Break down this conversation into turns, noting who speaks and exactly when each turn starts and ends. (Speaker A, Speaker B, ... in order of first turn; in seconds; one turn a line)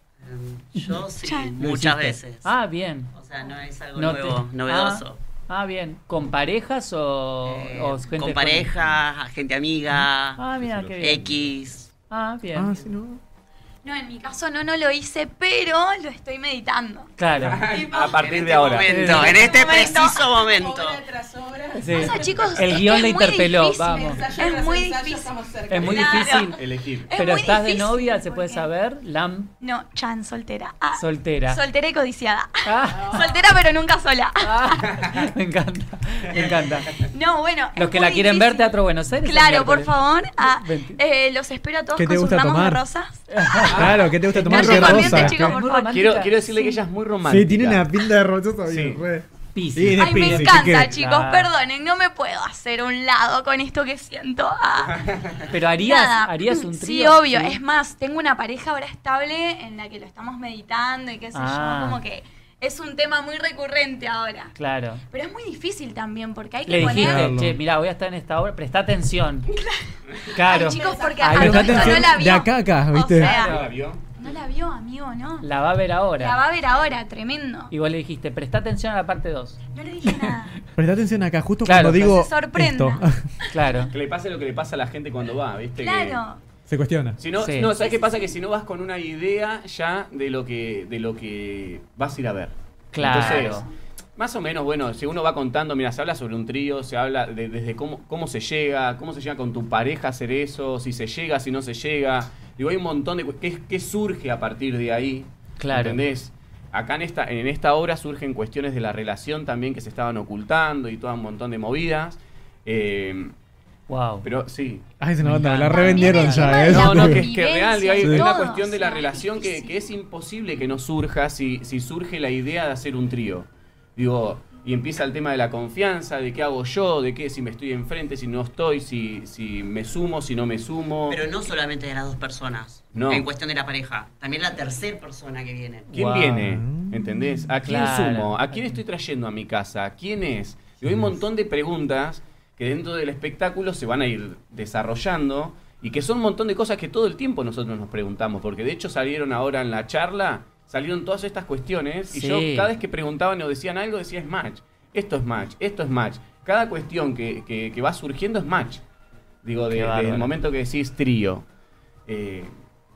Speaker A: 0.2-2.5
Speaker B: 1.2-1.6
Speaker C: 1.6-3.1
Speaker A: 3.1-5.2
Speaker C: 3.9-8.8
Speaker A: 7.5-10.4
Speaker C: 10.4-11.3
Speaker A: 11.0-11.9
Speaker C: 12.1-12.8
Speaker D: 12.6-13.2
Speaker B: 13.8-17.1
Speaker C: 17.2-17.7
Speaker E: 17.4-19.4
Speaker B: 17.7-18.1
Speaker A: 17.8-21.0
Speaker C: 18.9-19.4
Speaker B: 19.1-20.2
Speaker F: 19.3-22.6
Speaker C: 21.8-24.2
Speaker B: 21.9-28.7
Speaker F: 23.9-26.5
Speaker C: 25.7-26.6
Speaker E: 26.6-27.1
Speaker C: 27.1-29.5
Speaker B: 29.6-35.0
Speaker C: 30.9-31.6
Speaker C: 32.6-33.3
Speaker F: 33.0-33.4
Speaker C: 34.4-37.0
Speaker B: 37.1-46.8
Speaker C: 37.8-41.0
Speaker D: 42.0-42.8
Speaker C: 43.3-46.3
Speaker D: 43.7-45.5
Speaker E: 44.5-45.3
Speaker E: 45.9-47.9
Speaker D: 47.2-50.9
Speaker E: 48.7-49.0
Speaker C: 49.5-51.5
Speaker B: 50.0-55.0
Speaker C: 55.5-57.6
Speaker B: 55.8-64.5
Speaker C: 61.3-62.0
Speaker C: 64.6-65.0
Speaker B: 65.1-67.3
Speaker C: 66.7-69.5
Speaker D: 66.8-67.6
Speaker B: 69.6-69.8
Speaker C: 70.3-72.1
Speaker B: 70.4-75.5
Speaker F: 70.5-72.0
Speaker D: 71.2-73.4
Speaker E: 73.2-74.0
Speaker C: 73.2-73.7
Speaker C: 75.4-76.4
Speaker B: 76.2-77.7
Speaker C: 77.7-80.4
Speaker B: 79.7-80.6
Speaker D: 80.8-83.2
Speaker C: 81.6-82.2
Speaker B: 82.0-83.9
Speaker C: 83.5-83.9
Speaker E: 83.9-86.2
Speaker B: 85.8-86.4
Speaker D: 86.7-87.2
Speaker E: 87.2-113.3
Speaker C: 87.4-87.7
Speaker B: 87.6-88.4
Speaker C: 92.9-93.7
Speaker B: 93.2-93.5
Speaker C: 105.6-106.0
Speaker C: 113.9-114.3
Speaker E: 114.2-114.8
Speaker D: 115.0-117.3
Speaker C: 115.2-116.6
Speaker B: 115.7-119.8
Speaker E: 116.4-131.2
Speaker D: 118.0-118.3
Speaker A: 131.1-135.9
Speaker E: 132.9-133.3
Speaker C: 135.9-136.5
Speaker E: 135.9-158.8
Speaker D: 136.3-137.5
Speaker C: 137.6-138.8
Speaker D: 140.8-141.1
Speaker C: 152.1-152.7
Speaker E: 159.4-161.5
Speaker C: 159.7-160.3
Speaker E: 162.1-162.5